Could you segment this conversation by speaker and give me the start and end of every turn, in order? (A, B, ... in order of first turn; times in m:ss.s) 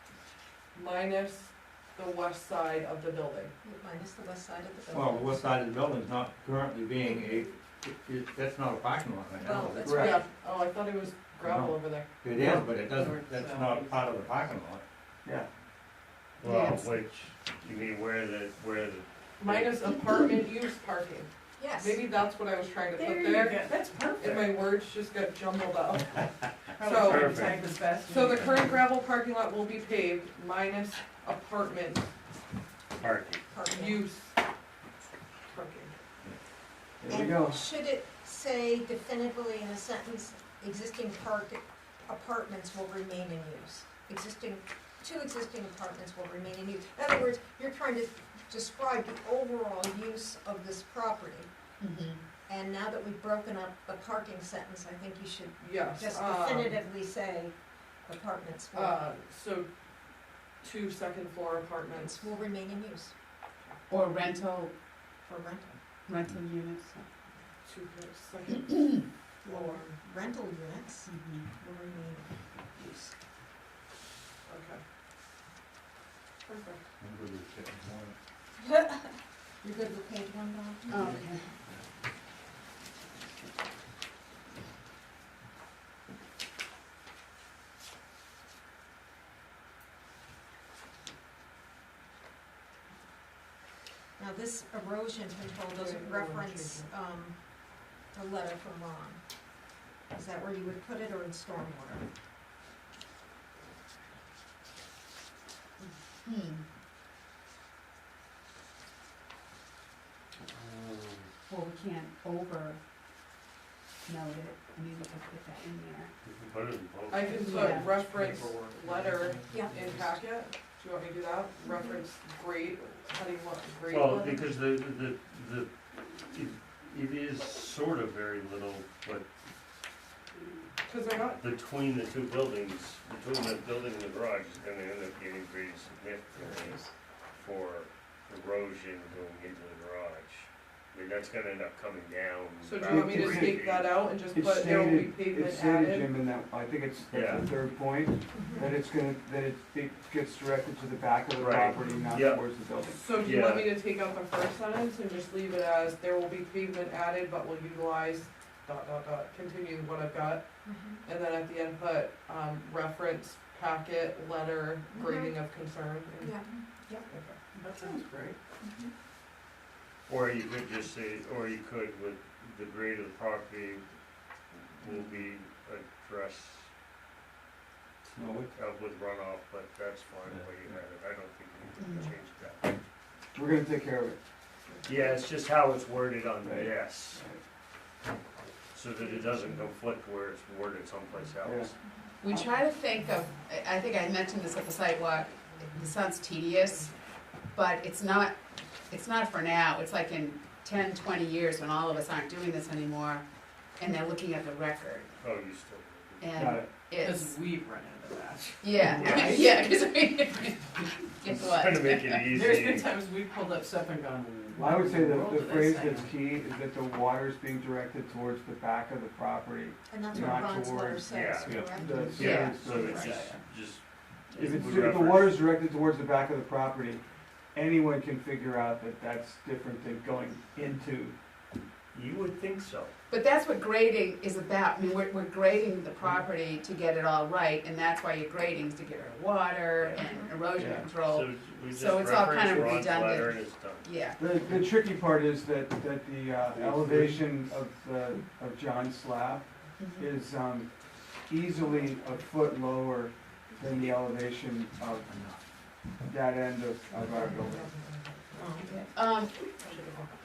0:00.7-0:03.5 A
0:03.6-0:05.4 B
0:04.9-0:09.9 C
0:09.4-0:10.2 B
0:09.8-0:10.2 D
0:09.8-0:12.1 A
0:11.4-0:14.8 C
0:12.4-0:12.6 D
0:12.6-0:14.3 E
0:16.4-0:19.8 F
0:16.4-0:16.9 G
0:19.4-0:32.1 A
0:21.6-0:22.0 B
0:22.9-0:24.4 E
0:26.8-0:28.9 E
0:27.0-0:27.6 F
0:32.9-0:33.4 F
0:33.5-0:34.0 B
0:33.7-0:34.3 A
0:35.5-0:35.9 A
0:37.0-0:37.6 D
0:37.1-0:51.5 B
0:51.8-0:52.2 G
0:52.5-0:59.0 B
0:55.6-0:56.8 A
0:58.7-0:59.7 A
1:00.6-1:02.3 A
1:02.0-1:03.1 B
1:03.9-1:04.7 G
1:05.2-1:05.8 B
1:06.1-1:07.1 G
1:07.6-1:10.0 A
1:08.5-1:09.0 G
1:09.4-1:13.1 B
1:11.0-1:11.5 G
1:14.4-1:14.8 A
1:16.4-1:16.8 A
1:17.0-1:18.2 C
1:18.6-1:21.2 B
1:20.9-1:21.5 G
1:34.2-1:39.2 B
1:35.7-1:36.9 A
1:40.1-1:42.0 B
1:45.8-1:46.7 G
1:50.4-1:51.3 F
1:51.5-1:52.8 G
1:54.0-1:56.1 G
1:56.2-1:57.3 F
1:57.1-2:04.5 A
1:57.2-1:58.0 G
1:57.4-2:00.2 E
1:59.5-1:59.8 B
2:01.7-2:02.0 B
2:03.9-2:09.3 F
2:10.8-2:11.4 A
2:11.3-2:23.9 F
2:22.6-2:26.2 A
2:22.8-2:23.6 D
2:24.3-2:33.0 D
2:27.1-2:27.5 F
2:28.3-2:28.7 B
2:31.3-2:32.4 F
2:32.8-2:40.5 A
2:33.2-2:33.7 F
2:40.6-2:41.0 B
2:41.0-2:46.4 A
2:44.9-2:45.4 B
2:46.2-2:47.0 B
2:47.0-2:47.4 A
2:47.6-2:48.4 E
2:48.6-2:48.9 B
2:50.1-2:53.8 F
2:54.5-2:56.7 F
2:58.0-2:58.5 C
2:58.5-3:02.8 F
3:00.2-3:00.8 C
3:01.8-3:02.2 G
3:03.3-3:04.2 D
3:04.8-3:07.2 F
3:06.4-3:07.4 D
3:08.7-3:11.7 F
3:11.4-3:11.7 D
3:12.2-3:16.9 G
3:17.5-3:23.2 G
3:23.8-3:25.1 G
3:25.2-3:26.4 F
3:26.2-3:27.4 G
3:26.4-3:26.7 D
3:27.0-3:29.7 E
3:28.6-3:32.5 G
3:28.8-3:29.2 D
3:29.0-3:29.4 F
3:31.3-3:33.0 F
3:32.3-3:36.1 E
3:34.5-3:43.3 D
3:39.9-3:43.2 B
3:41.0-3:41.6 F
3:41.4-3:41.8 C
3:41.7-3:42.0 E
3:42.1-3:43.4 G
3:42.2-3:45.4 F
3:44.3-3:47.0 D
3:47.5-3:51.1 D
3:51.9-3:52.9 F
3:53.1-4:04.2 G
3:59.8-4:00.1 F
4:00.0-4:00.3 B
4:00.6-4:00.9 D
4:01.0-4:03.9 F
4:02.5-4:02.8 D
4:04.2-4:15.3 D
4:06.7-4:07.2 F
4:09.8-4:10.1 G
4:16.0-4:17.7 D
4:17.1-4:18.8 A
4:18.3-4:18.7 B
4:18.6-4:19.5 G
4:19.6-4:20.1 A